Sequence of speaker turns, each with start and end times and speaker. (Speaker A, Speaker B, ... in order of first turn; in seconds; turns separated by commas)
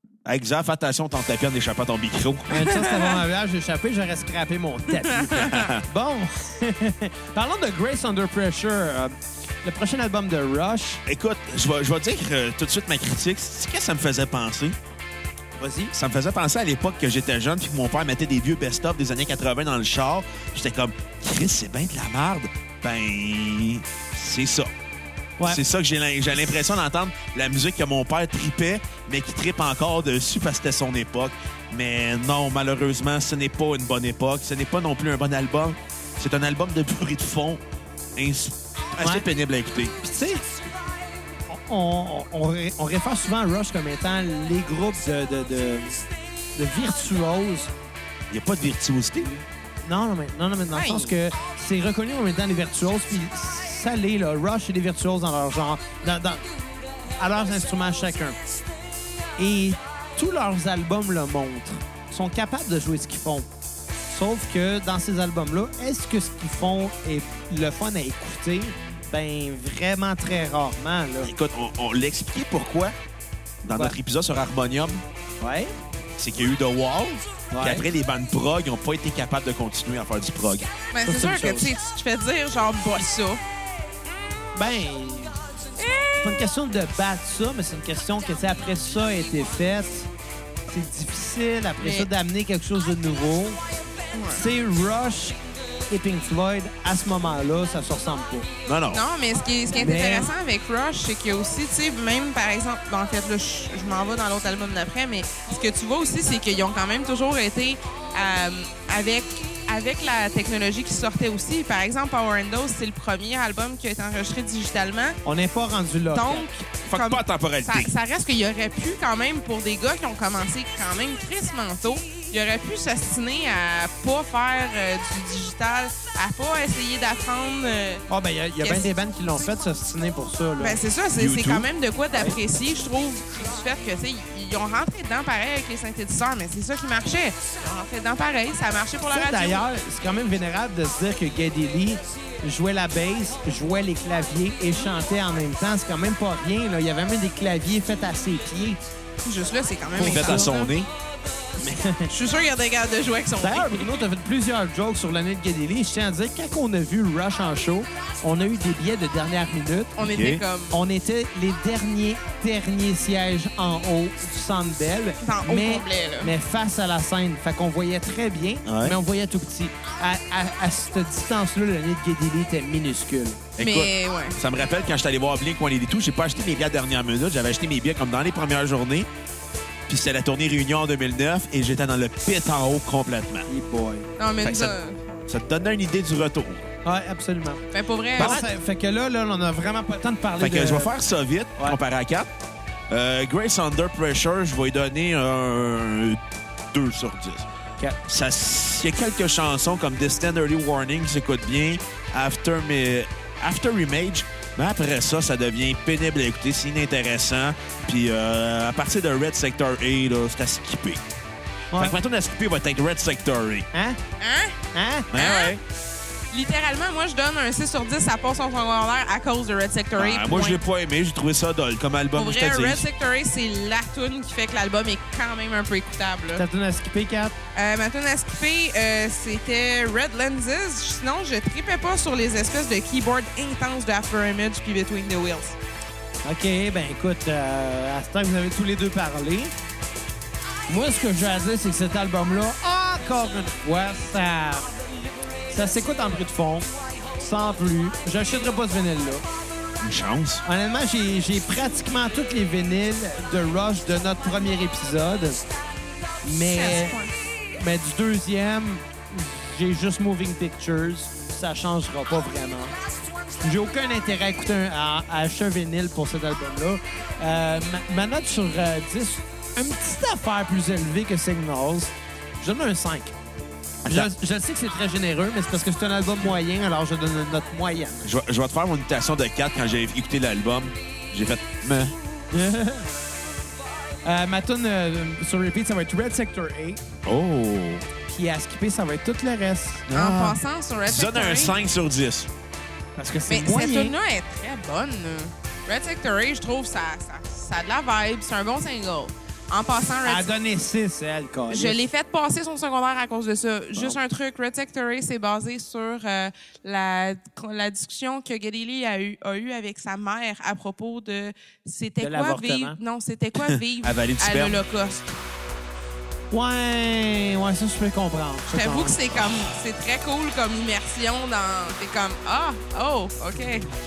Speaker A: 0.2-2.6, Speaker B: 2.5-11.0, Speaker C: 2.6-3.2, Speaker C: 5.0-5.7, Speaker A: 5.3-5.8, Speaker A: 11.1-14.8, Speaker B: 15.6-15.9, Speaker A: 15.9-24.7, Speaker A: 25.4-37.6, Speaker A: 38.1-40.0, Speaker B: 39.0-39.2, Speaker B: 40.0-40.4, Speaker B: 41.5-46.0, Speaker B: 46.5-47.7, Speaker A: 48.3-49.3, Speaker B: 49.8-56.4, Speaker C: 50.7-51.1, Speaker B: 57.2-58.4, Speaker B: 59.4-63.5, Speaker B: 64.1-71.3, Speaker A: 71.2-72.9, Speaker A: 73.6-75.0, Speaker B: 73.7-73.9, Speaker B: 75.4-75.7, Speaker A: 76.2-80.7, Speaker B: 77.5-77.8, Speaker C: 80.9-83.4, Speaker B: 81.0-81.7, Speaker B: 84.5-85.4, Speaker C: 85.8-86.5, Speaker B: 86.2-90.1, Speaker B: 90.7-93.6, Speaker C: 91.8-92.1, Speaker C: 94.1-94.4, Speaker B: 94.3-95.4, Speaker B: 95.9-98.5, Speaker A: 98.7-99.0, Speaker C: 98.9-115.2, Speaker B: 99.8-100.3, Speaker B: 115.2-116.5, Speaker C: 116.1-128.0, Speaker A: 116.9-117.9, Speaker B: 128.1-130.8, Speaker C: 128.6-128.9, Speaker C: 130.6-139.6, Speaker A: 131.2-131.7, Speaker B: 139.1-148.8, Speaker C: 149.2-150.7, Speaker A: 149.9-150.9, Speaker B: 150.0-150.5, Speaker B: 151.6-152.1, Speaker C: 152.1-154.0, Speaker B: 153.4-159.9, Speaker C: 160.0-160.8, Speaker A: 160.0-160.4, Speaker B: 160.7-173.4, Speaker C: 165.2-166.3, Speaker A: 168.7-169.0, Speaker A: 173.6-179.1, Speaker C: 173.6-174.4, Speaker A: 179.9-183.5, Speaker B: 183.5-184.1, Speaker C: 184.2-185.1, Speaker A: 184.4-184.7, Speaker A: 185.3-186.6, Speaker B: 186.8-187.6, Speaker C: 187.7-188.4, Speaker A: 188.2-188.4, Speaker B: 188.2-190.9, Speaker A: 190.4-192.3, Speaker A: 192.9-197.5, Speaker A: 198.1-211.0, Speaker B: 211.7-212.0, Speaker A: 211.8-213.7, Speaker B: 213.7-214.0, Speaker C: 214.2-214.6, Speaker B: 214.7-215.1, Speaker A: 215.1-215.6, Speaker C: 215.1-215.6, Speaker C: 216.3-220.6, Speaker A: 219.9-222.8, Speaker C: 222.1-226.4, Speaker B: 226.3-227.3, Speaker C: 227.5-235.6, Speaker B: 236.2-239.5, Speaker B: 240.7-244.7, Speaker B: 245.5-249.2, Speaker A: 249.8-250.4, Speaker B: 250.4-255.4, Speaker B: 256.2-257.0, Speaker C: 256.5-257.1, Speaker B: 257.5-262.7, Speaker B: 263.4-273.1, Speaker A: 273.8-274.1, Speaker B: 273.9-278.1, Speaker A: 278.0-281.9, Speaker B: 282.3-282.9, Speaker B: 284.0-286.8, Speaker A: 287.0-287.8, Speaker B: 288.1-289.9, Speaker A: 289.9-292.3, Speaker C: 289.9-291.6, Speaker B: 293.0-293.9, Speaker C: 293.3-300.3, Speaker B: 300.0-301.8, Speaker C: 301.5-315.1, Speaker B: 312.0-312.8, Speaker A: 313.4-314.6, Speaker B: 316.3-319.2, Speaker C: 318.5-323.7